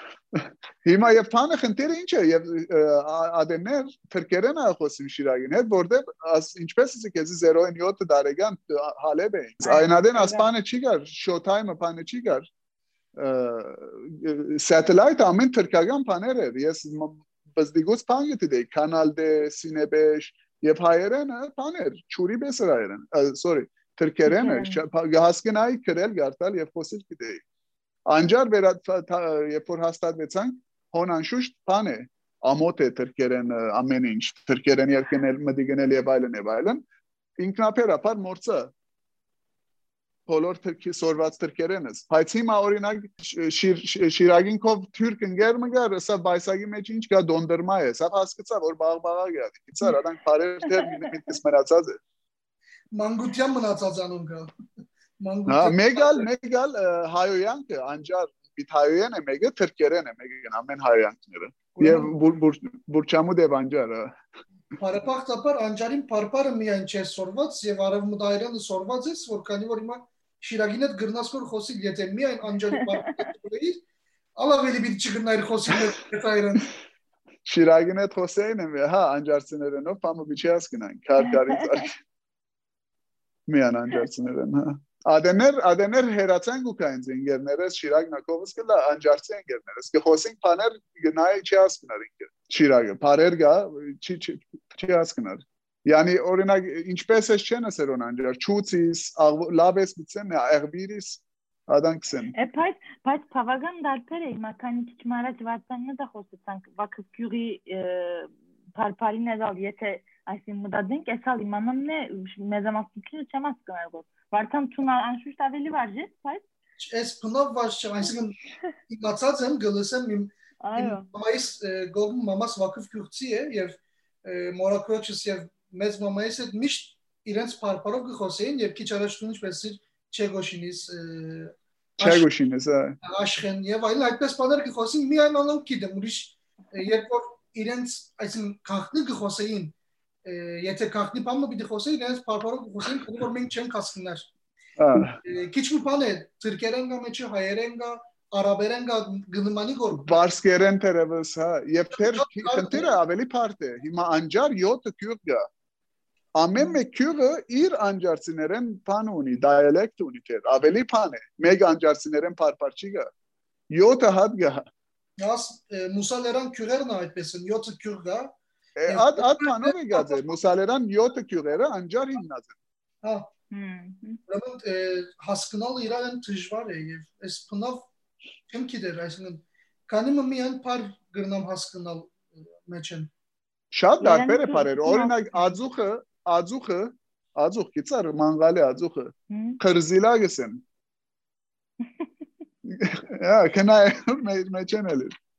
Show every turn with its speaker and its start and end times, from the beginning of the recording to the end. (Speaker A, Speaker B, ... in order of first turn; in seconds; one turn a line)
Speaker A: 0.3-12.5
Speaker B: 9.6-10.5
Speaker A: 13.2-27.4
Speaker B: 24.3-24.8
Speaker A: 28.1-36.8
Speaker A: 37.4-38.7
Speaker A: 40.3-52.0
Speaker C: 52.9-54.6
Speaker C: 55.2-56.3
Speaker A: 55.5-64.2
Speaker C: 61.8-62.1
Speaker C: 64.8-73.8
Speaker C: 74.4-76.7
Speaker A: 77.5-82.0
Speaker A: 83.5-102.3
Speaker B: 102.3-116.5
Speaker C: 116.8-132.2
Speaker B: 120.6-121.1
Speaker A: 132.0-133.0
Speaker C: 133.0-139.7
Speaker C: 140.2-144.3
Speaker A: 144.8-145.2
Speaker C: 145.2-150.2
Speaker A: 150.0-155.5
Speaker C: 151.9-152.9
Speaker A: 156.4-163.1
Speaker A: 163.7-164.7
Speaker C: 165.2-168.3
Speaker A: 168.8-172.6
Speaker C: 168.9-170.3
Speaker C: 173.0-173.3
Speaker B: 173.5-174.2
Speaker C: 174.3-177.9
Speaker C: 178.5-183.1
Speaker A: 183.7-190.6
Speaker B: 184.0-185.6
Speaker B: 189.3-189.6
Speaker A: 192.6-195.2